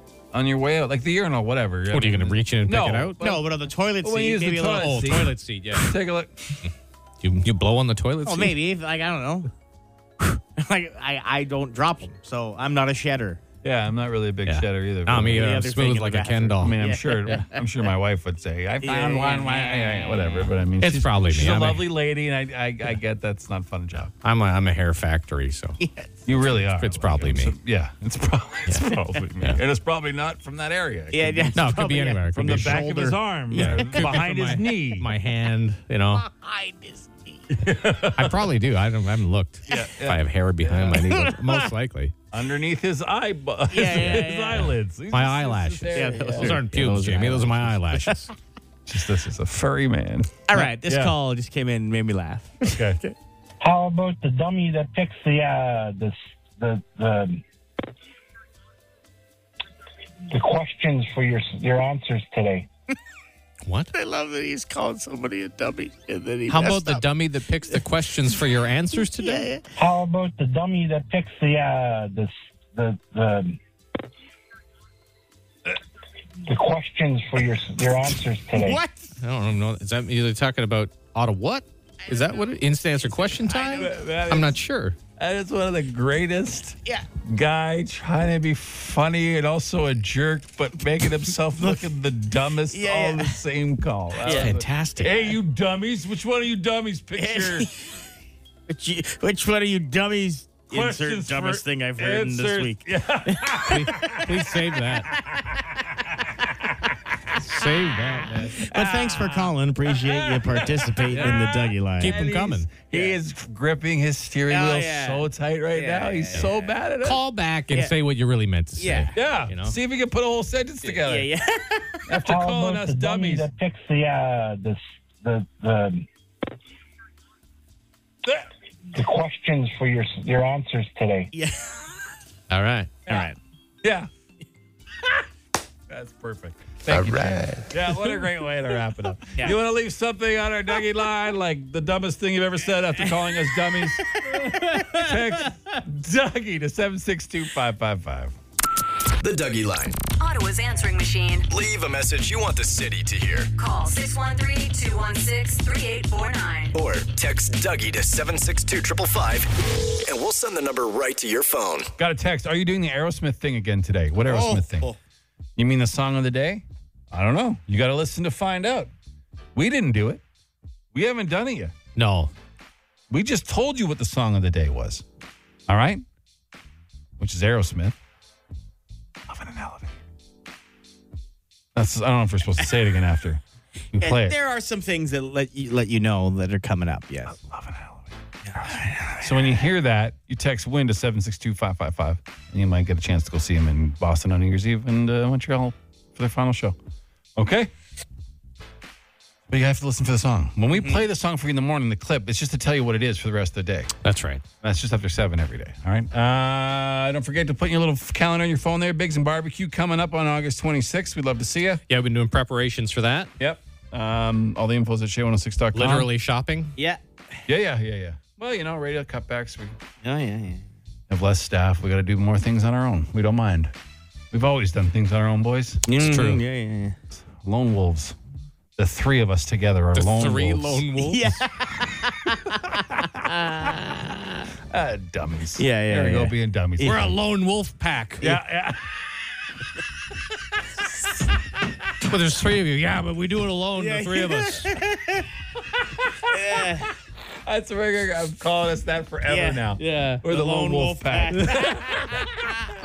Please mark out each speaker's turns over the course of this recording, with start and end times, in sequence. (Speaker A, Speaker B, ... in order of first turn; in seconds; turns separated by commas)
Speaker A: 0.3-3.5, Speaker B: 1.9-3.2, Speaker C: 3.2-5.0, Speaker A: 4.0-6.6, Speaker B: 4.7-5.9, Speaker B: 7.2-8.6, Speaker C: 8.2-9.5, Speaker C: 10.6-13.4, Speaker A: 13.6-15.7, Speaker B: 14.5-17.4, Speaker C: 15.2-17.6, Speaker A: 16.6-24.1, Speaker C: 18.8-20.5, Speaker B: 20.8-21.9, Speaker B: 24.2-25.8, Speaker C: 25.8-26.3, Speaker A: 26.3-31.7, Speaker B: 26.8-27.6, Speaker C: 31.1-34.3, Speaker B: 31.6-36.2, Speaker A: 32.3-35.1, Speaker C: 36.1-37.5, Speaker A: 37.6-38.4, Speaker B: 38.1-42.1, Speaker A: 39.7-41.0, Speaker C: 40.9-41.6, Speaker A: 42.3-46.7, Speaker C: 43.7-44.7, Speaker B: 44.0-44.3, Speaker B: 45.1-48.3, Speaker C: 45.9-48.3, Speaker A: 48.9-51.1, Speaker C: 50.5-53.1, Speaker A: 52.7-53.0, Speaker D: 53.6-57.4, Speaker D: 60.3-62.7, Speaker B: 63.6-63.9, Speaker C: 63.9-67.0, Speaker B: 66.5-69.5, Speaker C: 69.0-69.7, Speaker D: 69.8-73.6, Speaker D: 76.5-78.8, Speaker C: 78.5-79.1, Speaker B: 79.2-85.0, Speaker C: 82.1-84.0, Speaker A: 83.8-84.6, Speaker A: 85.2-97.7, Speaker C: 91.6-91.8, Speaker C: 92.7-93.4, Speaker C: 94.2-95.4, Speaker B: 94.3-94.6, Speaker C: 97.2-97.8, Speaker C: 98.7-104.2, Speaker A: 100.7-104.5, Speaker B: 103.7-105.1, Speaker A: 105.1-105.6, Speaker C: 105.3-105.6, Speaker B: 107.3-108.7, Speaker A: 108.5-117.2, Speaker C: 108.5-112.2, Speaker B: 111.1-111.4, Speaker B: 112.0-112.7, Speaker C: 114.5-116.7, Speaker B: 117.0-119.8, Speaker C: 118.8-119.1, Speaker A: 119.1-121.3, Speaker C: 120.9-122.0, Speaker A: 122.1-123.5, Speaker D: 122.2-126.1, Speaker D: 128.9-131.3, Speaker C: 131.3-131.7, Speaker B: 132.5-133.1, Speaker C: 133.1-133.4, Speaker A: 133.8-134.1, Speaker A: 135.9-148.4, Speaker B: 136.9-137.6, Speaker E: 149.2-150.0, Speaker F: 150.2-151.5, Speaker E: 151.5-153.5, Speaker F: 153.6-156.8, Speaker E: 156.7-159.5, Speaker E: 160.0-161.9, Speaker A: 162.0-164.9, Speaker A: 165.6-168.9, Speaker A: 169.6-170.2, Speaker A: 170.9-171.7, Speaker B: 172.0-172.3, Speaker A: 173.1-175.0, Speaker A: 175.7-176.0, Speaker A: 177.2-178.0, Speaker A: 179.3-179.9, Speaker A: 181.8-183.4, Speaker A: 183.9-184.4, Speaker C: 184.0-187.4, Speaker A: 187.3-196.8, Speaker C: 188.5-189.6, Speaker A: 197.4-197.7, Speaker A: 199.5-203.9, Speaker C: 200.8-201.0, Speaker B: 204.0-204.4, Speaker A: 204.6-211.8, Speaker B: 211.9-213.3, Speaker A: 213.4-216.1, Speaker B: 215.7-216.8, Speaker C: 216.8-217.0, Speaker A: 217.5-219.8, Speaker C: 220.0-220.6, Speaker A: 221.1-223.7, Speaker A: 224.3-226.2, Speaker C: 225.9-227.0, Speaker B: 226.0-226.4, Speaker A: 227.1-228.2, Speaker A: 228.8-230.9, Speaker B: 229.9-231.3, Speaker C: 231.0-232.6, Speaker A: 232.7-233.1, Speaker C: 233.2-234.4, Speaker A: 234.7-237.2, Speaker C: 235.6-236.3, Speaker B: 236.8-238.4, Speaker A: 238.2-238.9, Speaker B: 242.1-244.7, Speaker C: 243.7-245.3, Speaker A: 245.8-246.9, Speaker C: 246.3-246.9, Speaker A: 247.4-252.3, Speaker C: 249.3-252.4, Speaker B: 249.8-250.2